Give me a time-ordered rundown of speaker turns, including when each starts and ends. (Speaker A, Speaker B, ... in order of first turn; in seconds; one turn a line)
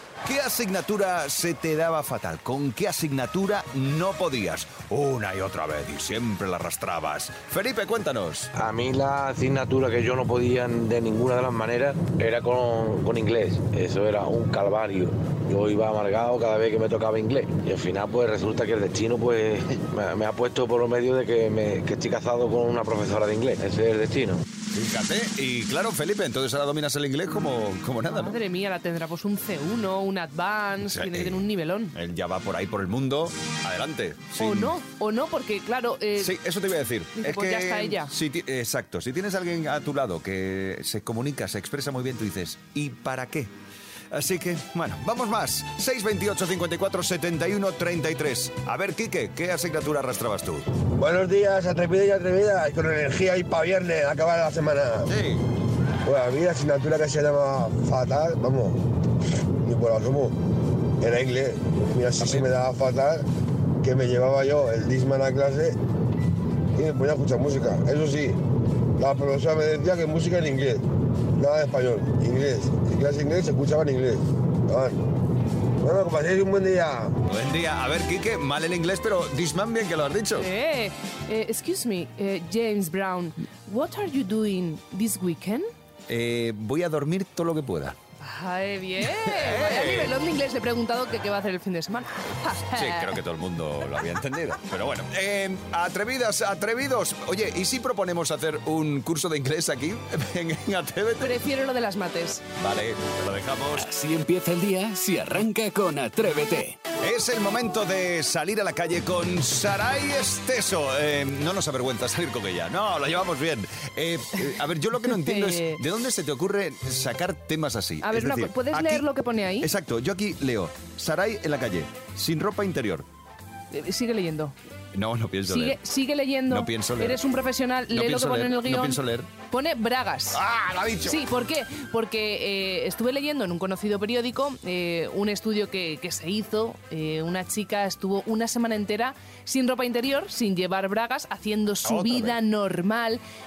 Speaker A: 0.2-8.5
Speaker B: 8.6-24.4
Speaker A: 24.7-28.4
Speaker C: 28.1-31.9
Speaker A: 30.8-34.7
Speaker C: 34.4-36.3
Speaker A: 36.2-43.5
Speaker C: 37.2-38.1
Speaker A: 44.1-50.7
Speaker D: 50.9-55.1
Speaker A: 55.1-55.4
Speaker D: 56.0-58.8
Speaker D: 59.6-60.4
Speaker D: 61.0-63.3
Speaker A: 62.2-62.5
Speaker D: 63.8-65.8
Speaker D: 66.8-68.4
Speaker D: 69.0-70.8
Speaker D: 71.4-75.0
Speaker D: 75.8-77.2
Speaker A: 77.3-80.5
Speaker C: 80.4-85.7
Speaker A: 86.1-88.0
Speaker C: 88.2-93.1
Speaker A: 89.2-90.2
Speaker A: 92.8-101.4
Speaker C: 101.2-102.4
Speaker A: 102.6-103.9
Speaker E: 103.8-106.8
Speaker A: 107.0-119.1
Speaker C: 115.1-115.8
Speaker C: 118.0-119.7
Speaker A: 119.6-123.1
Speaker C: 123.7-124.5
Speaker A: 124.9-125.8
Speaker C: 125.5-130.4
Speaker A: 126.5-127.2
Speaker A: 127.9-129.3
Speaker A: 130.3-131.2
Speaker C: 131.1-143.2
Speaker A: 141.8-142.4